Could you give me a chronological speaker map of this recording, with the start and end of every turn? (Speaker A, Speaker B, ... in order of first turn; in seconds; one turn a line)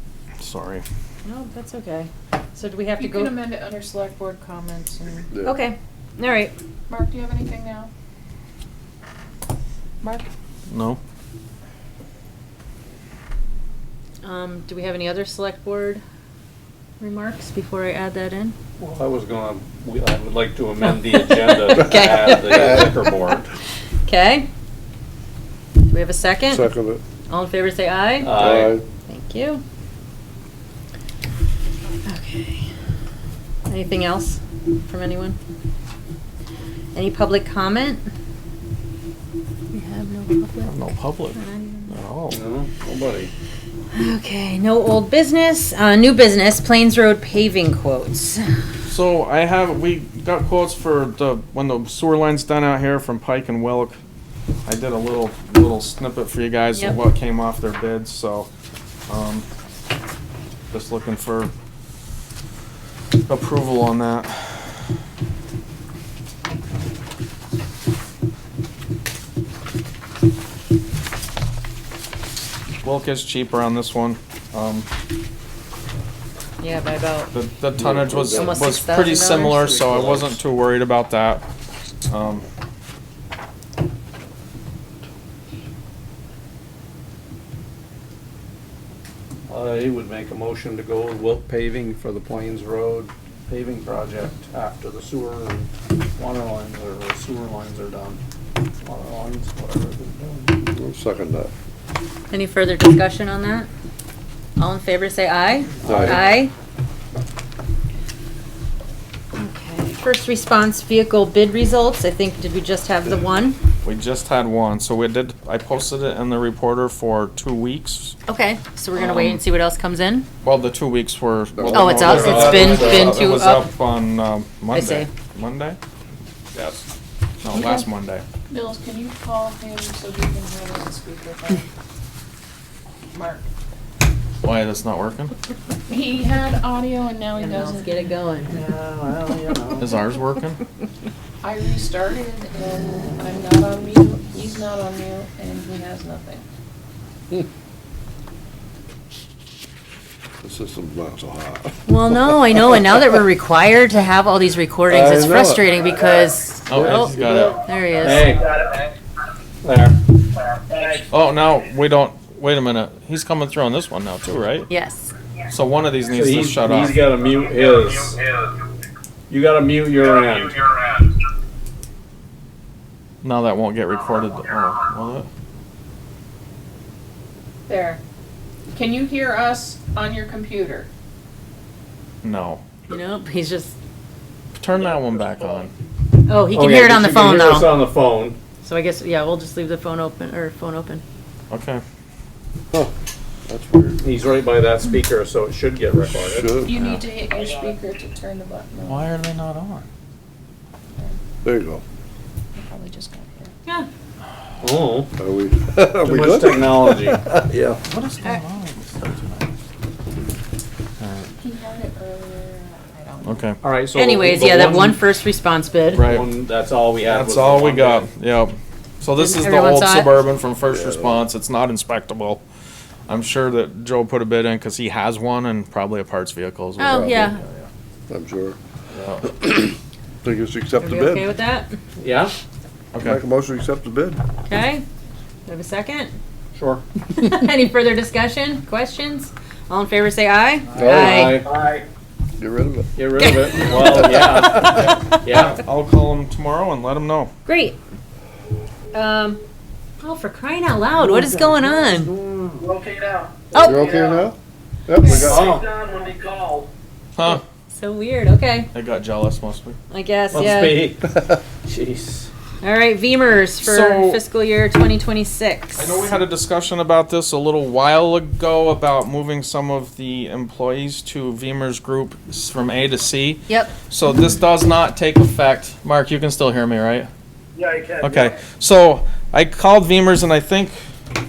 Speaker A: 0.4-0.8
Speaker B: 1.2-3.4
Speaker C: 3.0-5.3
Speaker D: 5.3-5.6
Speaker B: 5.4-6.5
Speaker C: 6.9-7.9
Speaker C: 10.0-10.3
Speaker A: 10.7-11.0
Speaker B: 14.2-16.0
Speaker B: 17.0-18.5
Speaker E: 18.8-23.5
Speaker B: 21.1-22.8
Speaker B: 24.1-24.5
Speaker B: 25.9-26.7
Speaker D: 26.5-27.0
Speaker B: 27.3-28.3
Speaker E: 28.2-28.8
Speaker D: 28.3-28.8
Speaker B: 29.1-29.6
Speaker B: 32.0-32.7
Speaker B: 33.7-35.4
Speaker B: 37.0-38.1
Speaker B: 39.7-42.0
Speaker A: 40.6-41.4
Speaker A: 41.9-42.4
Speaker E: 42.3-43.3
Speaker B: 43.9-48.5
Speaker A: 48.9-54.0
Speaker A: 54.6-58.5
Speaker A: 59.1-59.5
Speaker A: 60.7-61.5
Speaker A: 63.3-64.7
Speaker A: 72.8-74.9
Speaker B: 76.6-77.3
Speaker A: 77.3-81.4
Speaker D: 77.8-78.6
Speaker B: 78.3-79.7
Speaker E: 79.5-80.4
Speaker A: 82.1-82.5
Speaker E: 89.5-98.2
Speaker E: 98.8-100.5
Speaker D: 100.6-101.5
Speaker B: 102.3-103.7
Speaker B: 104.6-106.5
Speaker E: 105.8-106.3
Speaker D: 105.8-106.2
Speaker B: 109.4-113.6
Speaker A: 113.8-118.2
Speaker B: 118.3-120.3
Speaker A: 118.9-119.4
Speaker A: 120.4-125.8
Speaker D: 121.5-122.6
Speaker B: 121.6-123.7
Speaker E: 122.0-123.2
Speaker B: 124.7-125.1
Speaker A: 127.4-128.2
Speaker B: 127.5-127.8
Speaker C: 128.5-131.7
Speaker C: 133.1-133.4
Speaker A: 134.4-135.3
Speaker C: 135.9-138.1
Speaker B: 137.3-138.6
Speaker E: 138.5-139.9
Speaker A: 139.8-140.6
Speaker C: 141.4-146.4
Speaker D: 150.4-151.8
Speaker B: 151.9-158.4
Speaker D: 154.9-155.8
Speaker A: 156.7-157.6
Speaker D: 156.7-157.6
Speaker E: 158.0-158.8
Speaker E: 159.6-160.0
Speaker A: 161.1-164.7
Speaker B: 164.7-165.1
Speaker A: 165.5-167.0
Speaker E: 166.1-168.2
Speaker E: 169.3-170.9
Speaker A: 173.2-175.3
Speaker C: 177.7-178.0
Speaker C: 178.7-180.9
Speaker A: 182.2-182.6
Speaker B: 182.9-183.7
Speaker A: 184.6-185.7
Speaker B: 186.2-187.8
Speaker E: 186.5-188.4
Speaker B: 188.6-191.0
Speaker A: 191.5-191.8
Speaker D: 193.5-194.0
Speaker E: 194.0-196.6
Speaker D: 196.2-196.7
Speaker C: 196.6-199.1
Speaker A: 196.7-197.0
Speaker A: 198.8-199.8
Speaker D: 201.4-201.8
Speaker C: 202.6-203.6
Speaker E: 204.6-205.1
Speaker D: 205.2-207.4
Speaker E: 206.1-207.8
Speaker A: 207.8-209.4
Speaker A: 211.0-211.3
Speaker C: 211.4-213.5
Speaker A: 213.2-213.6
Speaker E: 213.6-215.1
Speaker B: 213.9-216.1
Speaker E: 215.9-218.1
Speaker A: 215.9-216.3
Speaker A: 217.0-222.4
Speaker B: 219.2-220.1
Speaker D: 220.7-221.2
Speaker A: 223.1-227.2
Speaker B: 226.8-227.4
Speaker D: 226.9-227.3
Speaker D: 228.1-228.6
Speaker A: 228.9-229.2
Speaker D: 229.3-231.3
Speaker B: 230.8-231.7
Speaker E: 232.0-232.3
Speaker A: 232.9-233.2
Speaker D: 233.0-234.2
Speaker B: 234.5-234.8
Speaker B: 235.5-236.2
Speaker E: 236.6-236.8
Speaker B: 237.1-241.4
Speaker D: 240.8-241.4
Speaker E: 240.8-241.5
Speaker D: 242.4-242.9
Speaker E: 243.0-245.6
Speaker B: 243.2-244.0
Speaker D: 243.8-244.5
Speaker A: 244.6-247.3
Speaker B: 247.5-247.8
Speaker B: 248.9-249.4
Speaker B: 250.0-252.1
Speaker E: 251.1-252.6
Speaker F: 252.6-253.9
Speaker B: 253.5-253.9
Speaker D: 253.6-254.4
Speaker D: 254.9-255.6
Speaker F: 255.2-256.7
Speaker E: 255.2-255.7
Speaker A: 257.2-257.4
Speaker B: 257.2-258.7
Speaker A: 258.7-259.8
Speaker B: 259.9-260.9
Speaker E: 260.3-262.3
Speaker B: 262.6-266.0
Speaker A: 263.6-264.2
Speaker A: 265.8-277.1
Speaker B: 273.5-273.8
Speaker F: 277.6-278.0
Speaker A: 278.0-280.7